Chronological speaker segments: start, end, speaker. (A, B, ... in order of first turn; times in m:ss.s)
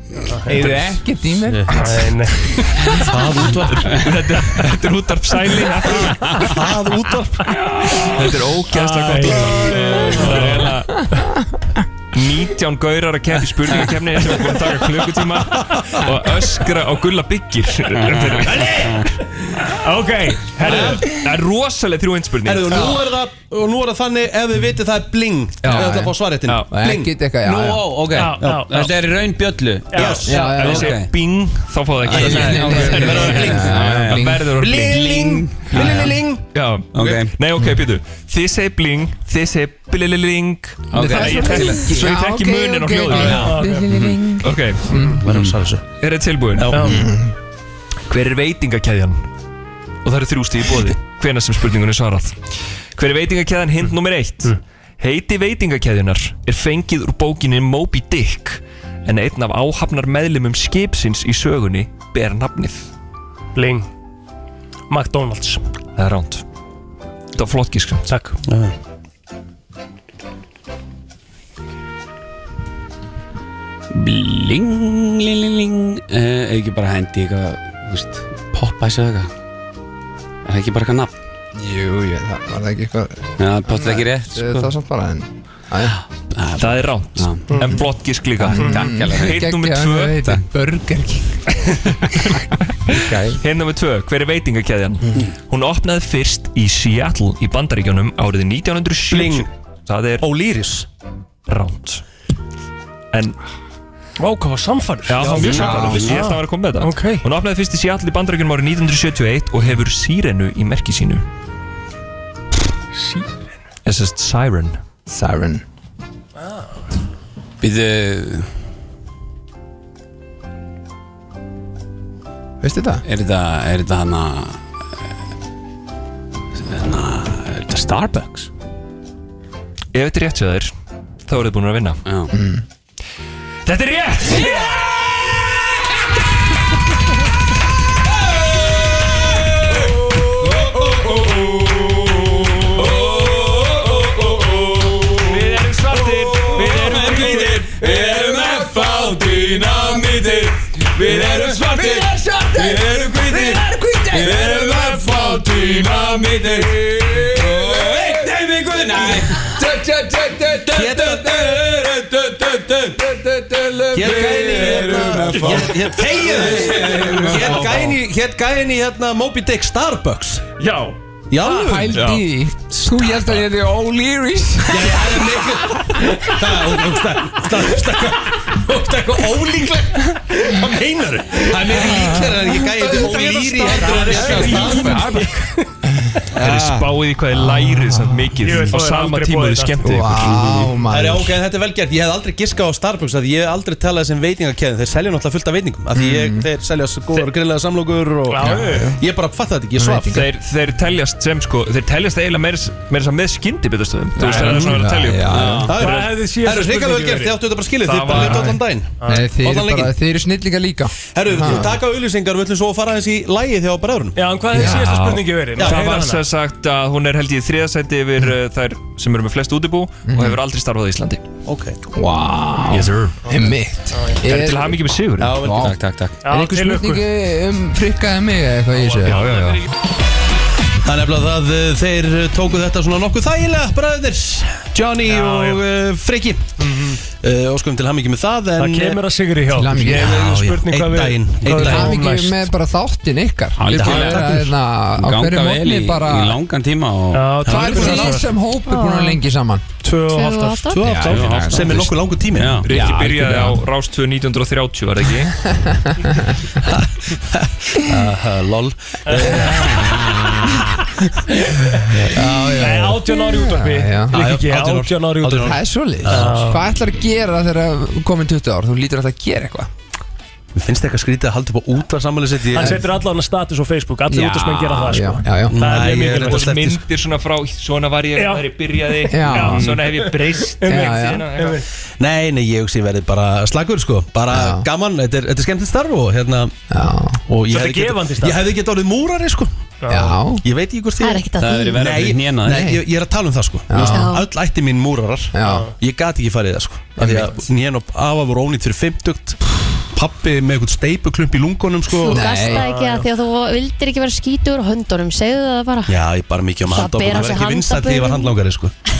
0:00.3-0:00.8 A
0:00.4-0:03.1 B
0:01.5-0:01.7 C
0:01.7-0:02.8 A
0:03.0-0:04.1 C
0:03.9-0:06.4 D
0:06.4-0:07.6 C
0:08.0-0:10.9 D
0:08.7-0:10.7 A
0:09.5-0:10.4 C
0:12.1-0:18.9 D
0:15.7-0:16.0 C
0:17.9-0:18.3 E
0:18.4-0:19.0 C
0:19.8-0:21.0 A
0:20.6-0:22.9 D
0:20.6-0:21.0 C
0:22.4-0:27.1 C
0:25.6-0:26.7 D
0:25.7-0:26.1 B
0:26.7-0:28.2 B
0:27.4-0:30.0 E
0:28.1-0:28.9 A
0:28.4-0:28.8 C
0:29.9-0:30.6 A
0:29.9-0:30.4 C
0:30.3-0:31.0 B
0:30.3-0:35.2 D
0:30.5-0:31.1 E
0:32.1-0:33.7 C
0:32.1-0:34.5 B
0:32.1-0:34.3 E
0:34.6-0:36.4 C
0:34.9-0:36.2 E
0:35.8-0:36.1 B
0:36.5-0:43.6 D
0:36.9-0:37.3 E
0:40.9-0:41.9 E
0:40.9-0:45.2 B
0:43.2-0:44.3 E
0:43.3-0:43.9 A
0:44.4-0:44.8 D
0:45.0-0:45.8 C
0:46.0-0:46.8 D
0:46.6-0:47.0 C
0:46.7-0:47.0 A
0:46.8-0:47.3 B
0:48.1-0:49.3 D
0:50.0-0:52.4 D
0:52.9-1:02.9 D
1:03.6-1:03.9 A
1:04.9-1:05.6 A
1:06.0-1:06.4 D
1:07.4-1:08.0 D
1:08.1-1:08.4 A
1:08.5-1:08.7 C
1:13.9-1:19.3 E
1:20.4-1:21.1 E
1:21.6-1:26.0 B
1:23.4-1:24.7 E
1:26.3-1:27.6 E
1:26.6-1:30.2 D
1:27.5-1:27.8 A
1:28.4-1:31.4 B
1:28.6-1:29.4 E
1:28.6-1:28.8 A
1:32.9-1:40.3 D
1:32.9-1:33.4 B
1:39.1-1:39.5 C
1:40.2-1:40.9 C
1:41.5-1:42.0 D
1:43.1-1:43.4 D
1:44.2-1:47.3 A
1:45.1-1:51.2 D
1:45.4-1:46.0 E
1:45.4-1:46.2 B
1:53.0-1:53.3 A
1:53.8-1:54.8 D
1:55.1-1:55.6 B
1:57.6-1:58.5 E
2:02.6-2:03.0 B
2:03.0-2:04.6 E
2:06.6-2:08.5 E
2:09.9-2:10.7 D
2:11.2-2:12.0 D
2:12.0-2:12.3 E
2:12.3-2:12.6 B
2:13.6-2:15.0 D
2:14.4-2:14.7 B
2:19.8-2:21.4 B
2:22.7-2:47.9 B
2:25.2-2:27.9 D
2:27.0-2:27.7 E
2:31.1-2:32.0 E
2:32.6-2:33.6 E
2:34.1-2:35.3 E
2:37.3-2:39.5 E
2:40.7-2:41.6 C
2:43.9-2:50.4 C
2:44.0-2:47.8 E
2:50.6-2:51.0 D
2:51.3-2:52.0 C
2:51.4-2:56.4 B
2:51.8-2:52.3 D
2:54.7-3:05.2 C
3:01.7-3:05.3 B
3:03.6-3:05.2 A
3:04.1-3:05.4 D
3:06.3-3:07.0 C
3:06.4-3:10.5 D
3:07.3-3:08.6 B
3:08.4-3:10.0 A
3:09.8-3:11.4 B
3:10.9-3:20.2 C
3:15.9-3:16.5 B
3:18.3-3:18.9 A
3:18.4-3:19.0 B
3:19.8-3:20.3 B
3:20.1-3:25.5 D
3:24.2-3:25.7 B
3:24.3-3:24.6 A
3:25.3-3:25.7 E
3:25.6-3:29.9 C
3:25.8-3:27.4 A
3:27.8-3:28.5 D
3:29.0-3:29.3 A
3:29.0-3:31.7 B
3:31.1-3:34.2 C
3:34.2-3:36.2 A
3:34.5-3:35.0 B
3:34.6-3:41.2 D
3:35.6-3:35.8 C
3:40.0-3:40.4 B
3:41.4-3:41.8 C
3:41.9-3:49.3 B
3:42.7-3:43.1 D
3:43.9-3:44.2 A
3:44.2-3:45.4 D
3:45.2-3:45.7 C
3:45.6-3:46.2 E
3:46.2-3:47.0 A
3:48.9-3:49.6 D
3:50.8-3:59.0 C
3:55.0-3:55.6 A
3:56.6-3:57.0 A
3:58.6-4:02.4 A
3:59.5-4:00.2 B
3:59.8-4:02.2 C
4:01.5-4:06.4 B
4:03.6-4:04.2 E
4:03.6-4:04.5 C
4:05.0-4:07.3 E
4:07.1-4:08.3 A
4:07.4-4:09.6 B
4:07.4-4:08.2 C
4:08.7-4:09.2 F
4:09.8-4:11.2 A
4:10.1-4:11.0 F
4:10.7-4:12.6 C
4:10.8-4:11.9 B
4:11.1-4:13.5 E
4:12.6-4:15.3 D
4:12.8-4:13.6 B
4:15.4-4:16.4 B
4:16.6-4:19.9 C
4:19.0-4:19.8 A
4:19.2-4:20.8 B
4:22.0-4:24.2 B
4:22.1-4:22.9 C
4:22.6-4:26.7 A
4:24.1-4:26.3 C
4:25.4-4:29.7 B
4:30.6-4:32.8 C
4:32.5-4:36.5 A
4:32.6-4:32.8 B
4:34.1-4:35.6 B
4:35.5-4:36.8 C
4:36.2-4:41.6 D
4:38.2-4:41.6 A
4:39.1-4:39.8 B
4:40.6-4:41.3 B
4:42.0-4:46.6 C
4:44.3-4:44.6 B
4:46.7-4:47.2 B
4:47.3-4:49.5 C
4:47.5-4:48.4 A
4:49.8-4:50.2 A
4:49.9-4:50.4 B
4:50.4-5:02.3 C
4:51.0-4:51.8 F
4:51.4-4:52.6 E
4:52.4-4:52.8 B
4:53.7-4:54.1 B
4:53.9-4:54.3 F
4:55.3-4:55.7 B
4:55.4-4:55.7 A
4:57.0-4:57.4 B
5:02.0-5:06.0 F
5:02.1-5:02.7 B
5:02.4-5:03.0 A
5:05.9-5:08.7 C
5:06.7-5:08.3 F